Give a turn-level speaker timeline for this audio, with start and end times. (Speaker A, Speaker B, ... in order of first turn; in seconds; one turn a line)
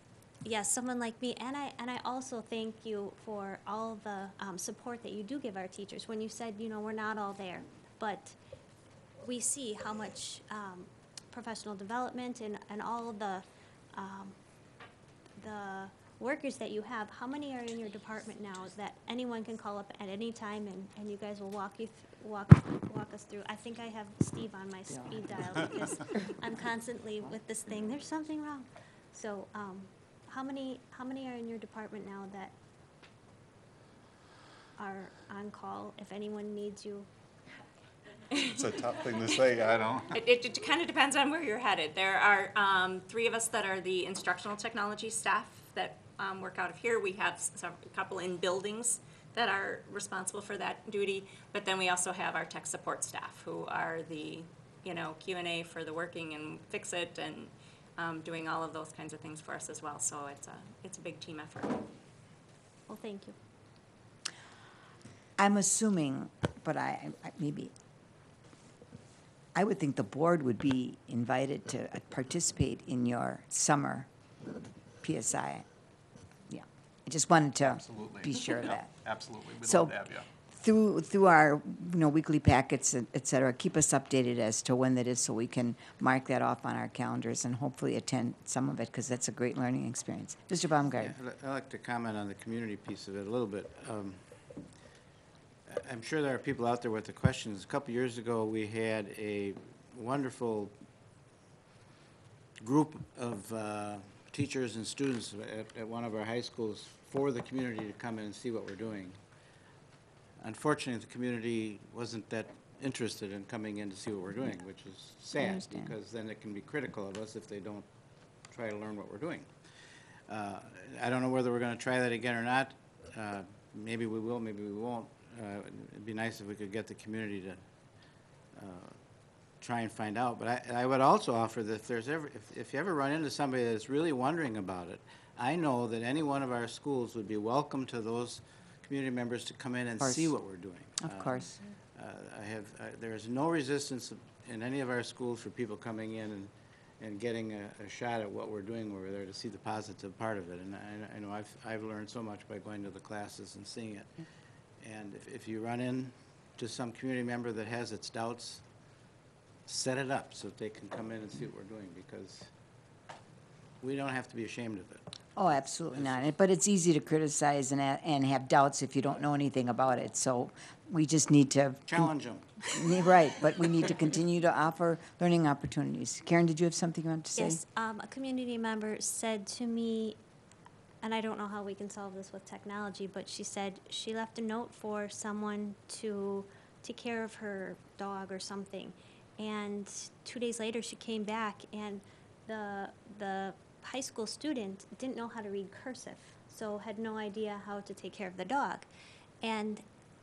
Speaker A: 0.4-8.4
Speaker A: 9.2-14.4
Speaker A: 15.4-32.5
Speaker A: 34.8-37.1
Speaker B: 38.4-40.2
Speaker C: 40.1-61.8
Speaker A: 62.9-63.4
Speaker D: 65.4-67.7
Speaker D: 69.5-74.1
Speaker D: 75.0-75.7
Speaker D: 76.5-78.9
Speaker B: 77.6-80.3
Speaker D: 79.6-79.9
Speaker D: 80.5-91.1
Speaker E: 90.9-94.7
Speaker E: 95.7-100.7
Speaker E: 102.6-109.2
Speaker E: 110.4-117.9
Speaker D: 115.4-115.9
Speaker E: 118.4-119.7
Speaker E: 120.2-154.2
Speaker D: 140.0-140.4
Speaker D: 141.0-141.5
Speaker E: 154.8-158.7
Speaker E: 159.7-162.5
Speaker E: 163.8-165.0
Speaker D: 165.3-172.1
Speaker E: 165.6-166.3
Speaker E: 171.9-173.1
Speaker D: 172.7-177.6
Speaker A: 177.3-180.2
Speaker A: 181.0-198.9
Speaker A: 199.4-199.8